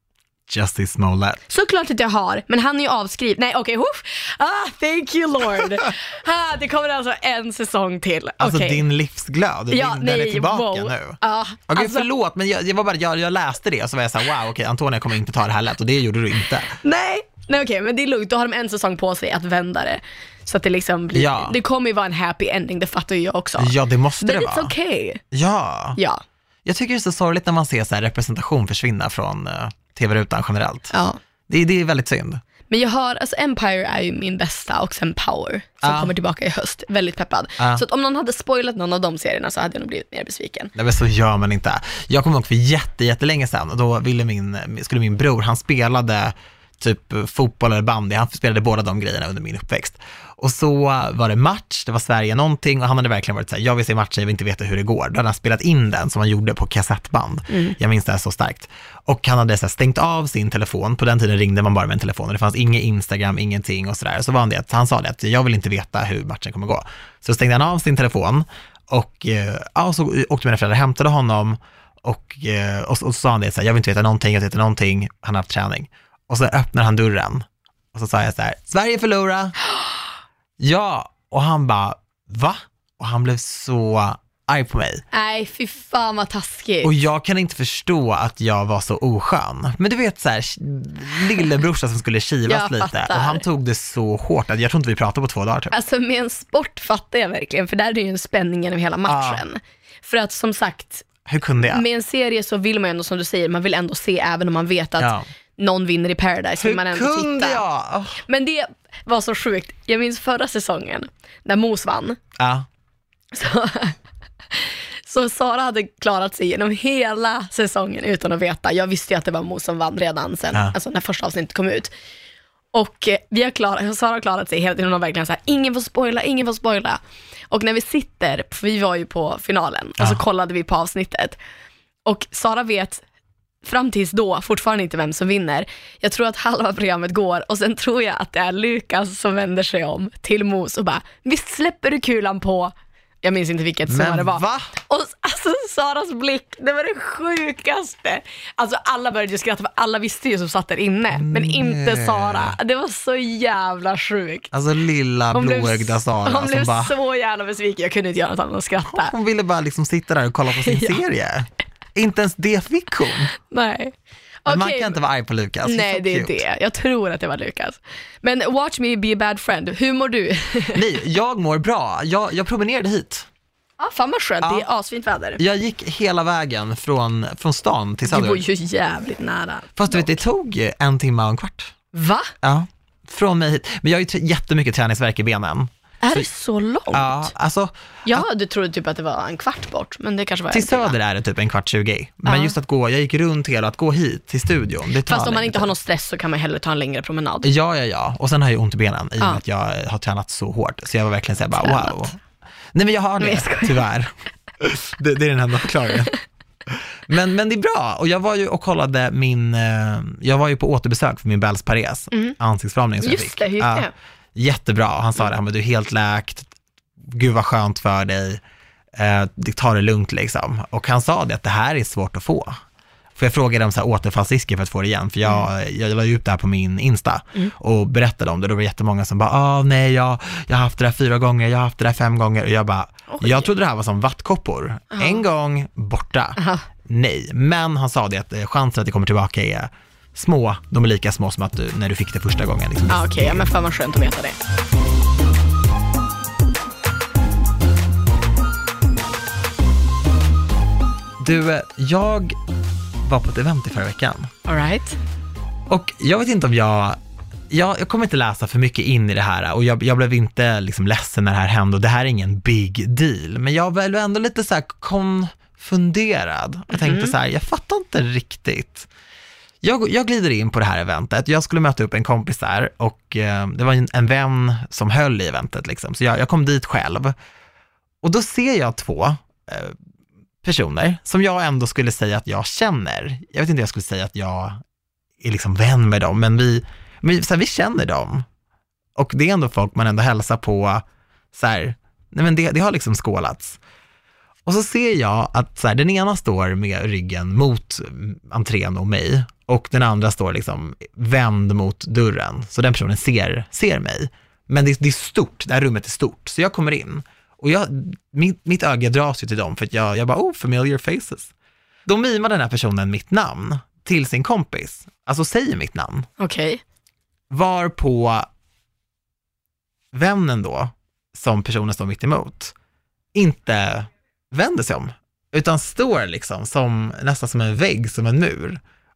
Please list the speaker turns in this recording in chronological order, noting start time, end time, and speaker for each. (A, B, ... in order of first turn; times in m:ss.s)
0:00.5-0:01.4 A
0:01.5-0:08.8 B
0:08.4-0:16.8 A
0:09.7-0:12.1 B
0:16.7-0:25.2 B
0:21.1-0:21.6 A
0:23.6-0:24.7 A
0:25.3-0:26.0 A
0:26.0-0:26.2 B
0:26.6-0:30.9 A
0:30.9-0:31.2 B
0:31.5-0:32.4 A
0:32.7-0:40.7 B
0:35.8-0:36.1 A
0:40.7-1:19.6 A
0:57.5-0:57.8 B
1:20.6-1:25.0 A
1:25.1-1:26.9 B
1:26.8-1:35.7 A
1:32.5-1:33.4 B
1:35.7-1:41.1 B
1:39.0-1:39.4 A
1:41.2-1:41.8 A
1:41.6-1:47.6 B
1:45.0-1:45.2 A
1:46.6-1:48.2 A
1:48.2-1:52.2 B
1:52.4-1:52.6 A
1:53.3-1:53.9 B
1:54.5-2:01.9 B
2:02.7-2:11.4 B
2:12.0-2:13.0 B
2:13.6-2:34.5 B
2:23.8-2:24.7 A
2:31.1-2:32.6 A
2:34.5-2:37.0 A
2:35.3-2:39.1 B
2:38.9-2:43.3 A
2:40.5-2:41.0 B
2:43.3-2:45.0 B
2:44.5-2:46.4 A
2:45.6-2:50.8 B
2:50.7-2:53.3 A
2:53.8-2:55.4 B
2:55.4-2:58.4 A
2:58.1-3:00.2 B
2:59.8-3:01.7 A
3:01.9-3:02.3 B
3:02.4-3:06.3 A
3:06.0-3:07.3 B
3:06.9-3:08.2 A
3:08.0-3:11.0 B
3:10.5-3:15.7 A
3:12.2-3:12.6 B
3:15.0-3:17.5 B
3:17.4-3:22.2 A
3:21.6-3:22.0 B
3:22.7-3:26.2 A
3:23.2-3:23.8 B
3:26.7-3:36.5 A
3:33.0-3:33.9 B
3:37.1-3:38.4 A
3:38.9-3:42.6 A
3:43.2-4:03.5 A
3:53.1-3:53.5 B
3:55.0-3:55.2 B
3:56.4-3:56.6 B
4:02.9-4:04.4 B
4:11.2-4:12.4 A
4:13.0-4:14.3 A
4:14.4-4:15.0 B
4:15.7-4:17.0 A
4:17.5-4:28.9 A
4:26.7-4:27.1 B
4:29.6-4:37.1 A
4:38.0-4:39.8 A
4:40.4-4:44.6 A
4:45.2-4:48.2 A
4:49.0-4:53.6 A
4:54.4-5:11.3 A
5:11.8-5:16.1 A
5:16.2-5:16.6 B
5:17.3-5:18.3 A
5:19.9-5:22.5 A
5:23.1-5:28.6 A